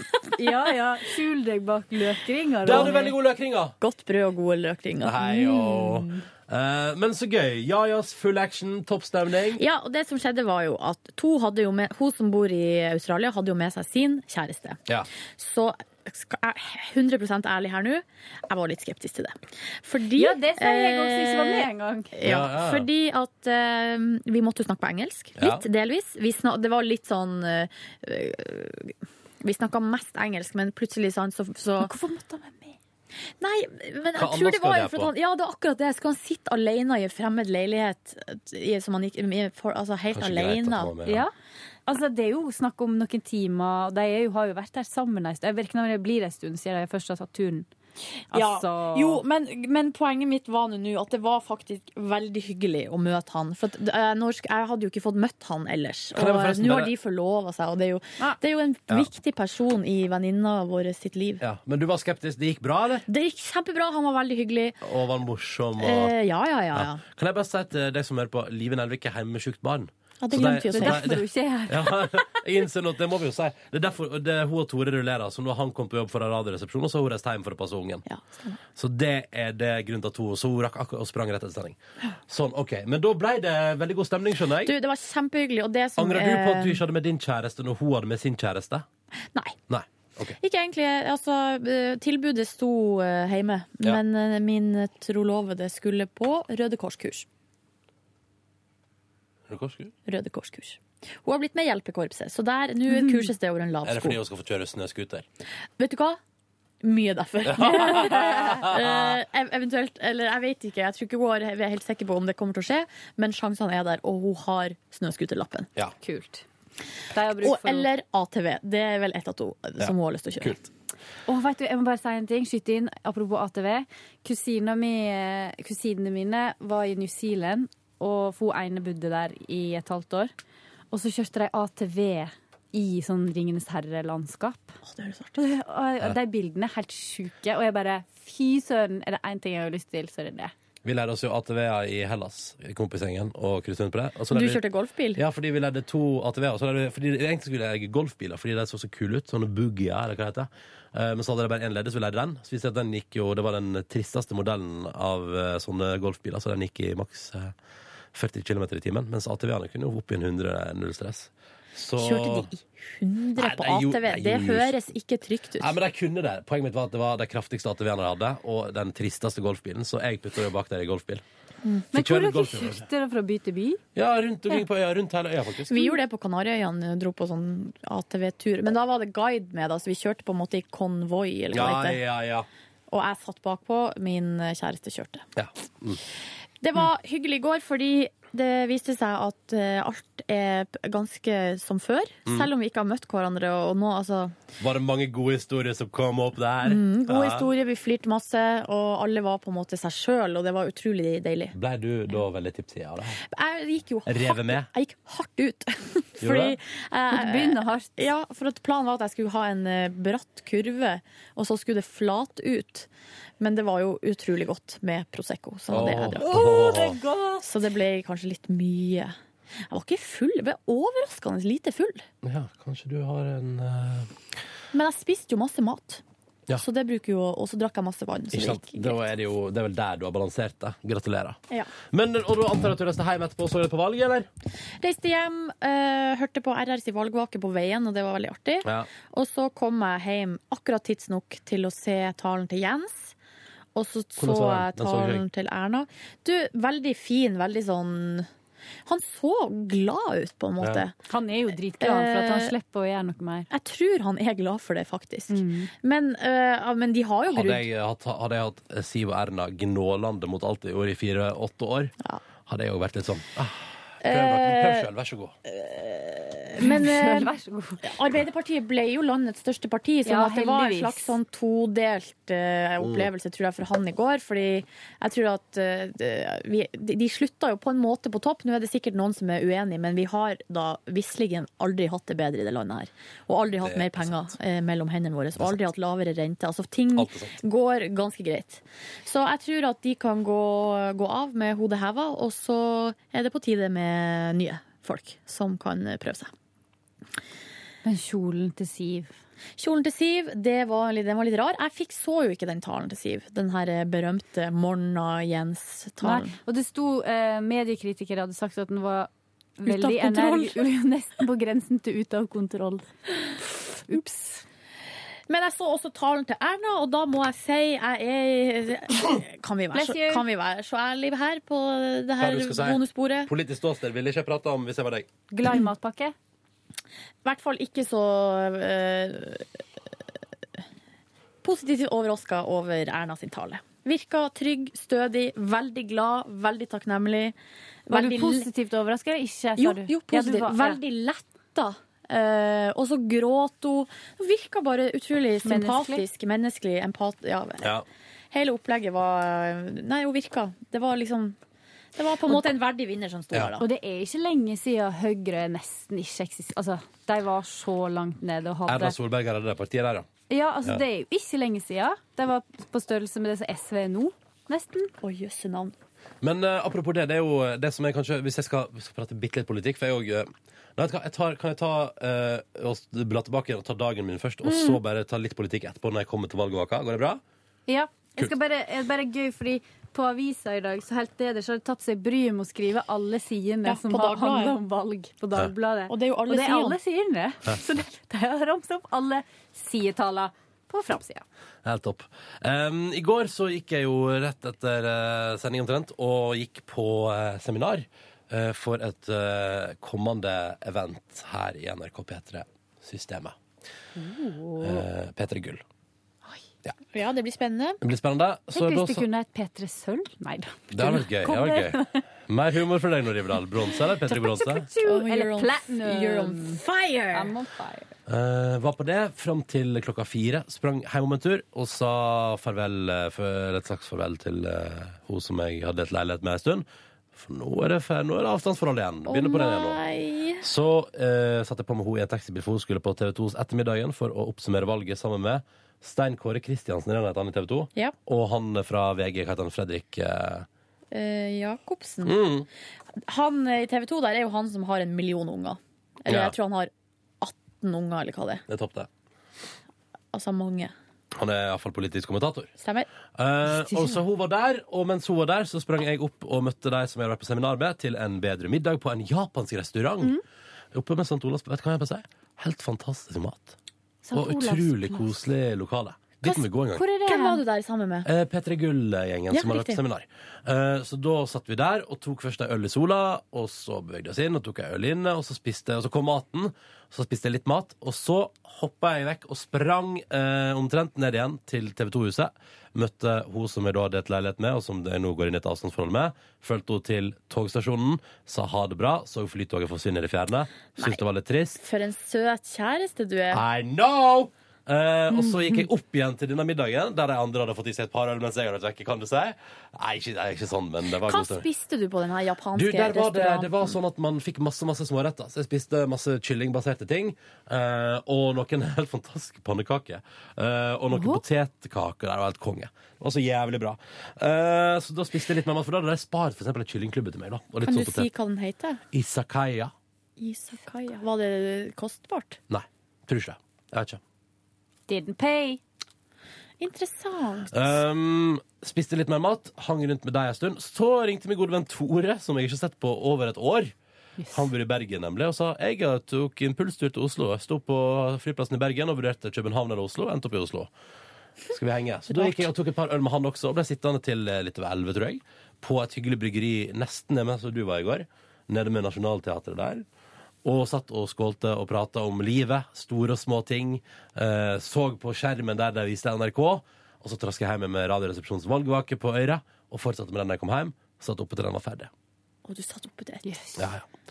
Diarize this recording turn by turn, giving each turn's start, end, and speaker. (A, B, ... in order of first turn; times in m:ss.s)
0:00.3-0:03.1 A
0:02.6-0:03.7 B
0:02.6-0:03.1 C
0:03.8-0:06.2 C
0:05.0-0:09.6 B
0:09.6-0:14.8 C
0:15.4-0:31.9 C
0:20.2-0:22.1 A
0:22.2-0:22.9 B
0:25.4-0:25.6 B
0:31.8-0:32.8 A
0:33.4-0:40.9 C
0:34.1-0:35.1 B
0:40.1-0:41.2 B
0:41.0-0:41.3 A
0:41.9-0:47.7 A
0:48.3-1:01.4 C
0:48.3-0:49.2 A
0:56.2-0:56.9 B
1:01.4-1:03.0 B
1:03.1-1:04.8 C
1:04.8-1:06.1 B
1:05.8-1:07.0 C
1:06.7-1:18.0 B
1:10.2-1:11.1 C
1:10.7-1:12.4 A
1:18.0-1:18.6 C
1:18.8-1:21.8 B
1:22.3-1:24.7 B
1:24.6-1:26.8 C
1:26.0-1:28.8 B
1:29.7-1:30.4 B
1:30.4-1:37.2 C
1:39.5-1:39.9 B
1:40.0-1:44.2 C
1:42.9-1:43.3 A
1:43.8-1:45.2 B
1:45.8-1:46.2 C
1:46.8-1:55.7 C
1:47.4-1:49.2 B
1:56.0-1:56.4 A
1:57.1-1:57.9 A
1:57.4-2:00.6 C
1:59.8-2:00.6 B
2:01.3-2:10.3 A
2:10.9-2:14.8 A
2:14.8-2:15.4 C
2:15.4-2:20.5 A
2:20.8-2:24.6 B
2:24.3-2:25.2 C
2:25.1-2:37.5 B
2:38.1-2:42.5 B
2:42.0-2:45.7 C
2:43.4-2:44.8 B
2:45.6-2:51.2 B
2:51.9-2:52.8 B
2:51.9-2:53.8 A
2:53.9-2:56.0 B
2:55.7-3:02.0 C
3:01.5-3:02.5 B
3:02.9-3:05.2 C
3:05.4-3:06.0 B
3:06.6-3:14.3 C
3:14.6-3:17.5 B
3:16.6-3:21.5 C
3:21.5-3:23.2 B
3:23.3-3:32.9 C
3:24.1-3:24.7 B
3:26.2-3:26.6 B
3:27.1-3:27.9 A
3:33.4-3:36.6 C
3:35.7-3:37.0 B
3:36.2-3:37.5 A
3:37.4-3:39.1 C
3:39.7-3:42.0 C
3:42.2-3:44.1 B
3:44.7-3:46.0 C
3:46.6-3:49.0 C
3:48.3-3:51.4 B
3:51.9-3:54.3 B
3:54.8-4:03.1 C
4:03.7-4:08.3 C
4:04.2-4:05.2 B
4:08.8-4:10.9 C
4:11.0-4:13.5 A
4:11.8-4:12.5 C
4:13.5-4:17.6 C
4:15.3-4:15.7 A
4:17.3-4:21.9 B
4:22.5-4:25.3 B
4:24.0-4:24.9 C
4:25.4-4:27.3 C
4:26.6-4:27.8 A
4:27.8-4:56.3 C
4:30.0-4:31.2 A
4:32.8-4:33.1 B
4:43.6-4:44.3 B
4:47.0-4:47.4 B
4:57.8-4:59.1 A
4:59.6-5:06.3 C
5:06.0-5:12.9 A
5:09.6-5:10.6 C
5:13.4-5:14.4 A
5:15.3-5:23.3 C
5:19.7-5:20.2 A
5:22.2-5:25.1 B
5:25.3-5:26.1 A
5:27.2-5:29.6 C
5:31.4-5:37.3 C
5:37.9-5:38.5 C
5:37.9-5:40.8 A
5:39.6-5:47.7 C
5:45.4-5:46.0 A
5:48.3-5:51.4 C
5:52.0-5:53.6 C
5:53.6-5:58.9 A
5:58.7-6:00.1 B
6:00.3-6:04.9 A
6:05.0-6:05.7 C
6:06.2-6:17.2 B
6:14.4-6:14.8 C
6:17.7-6:31.2 A
6:23.6-6:24.5 C
6:25.9-6:26.8 C
6:31.6-6:43.4 B
6:44.0-6:44.8 A
6:44.6-6:45.6 B
6:46.9-6:47.8 C
6:47.8-6:49.1 B
6:48.5-6:52.0 A
6:50.7-6:54.7 B
6:54.1-6:56.6 A
6:54.8-6:57.3 C
6:57.1-6:57.9 A
6:58.1-7:09.8 B
7:09.1-7:10.4 C
7:10.4-7:20.5 B
7:20.9-7:22.2 C
7:22.0-7:22.5 B
7:23.0-7:26.7 C
7:26.1-7:26.3 B
7:27.2-7:28.4 C
7:28.5-7:28.9 B
7:30.1-7:30.7 C
7:31.1-7:32.5 B
7:32.6-7:32.9 C
7:33.2-7:40.2 B
7:33.7-7:34.0 A
7:40.7-7:43.6 B
7:44.0-7:45.1 A
7:44.1-7:46.8 B
7:46.8-7:47.4 A
7:47.0-7:48.1 C
7:48.0-8:11.6 B
7:49.3-7:49.8 C
8:11.6-8:13.4 C
8:13.3-8:21.4 B
8:21.0-8:23.8 C
8:22.5-8:38.1 B
8:30.9-8:31.2 A
8:37.6-8:38.8 C
8:38.9-8:39.7 B
8:40.2-8:42.4 C
8:42.5-8:44.0 B
8:44.9-8:45.6 A
8:46.6-8:47.8 C
8:47.5-8:53.7 B
8:54.2-8:54.5 A
8:54.3-9:00.7 B
9:01.5-9:09.8 B
9:02.1-9:02.5 C
9:10.4-9:21.9 B
9:22.4-9:23.4 C
9:23.2-9:23.6 A
9:23.6-9:23.8 B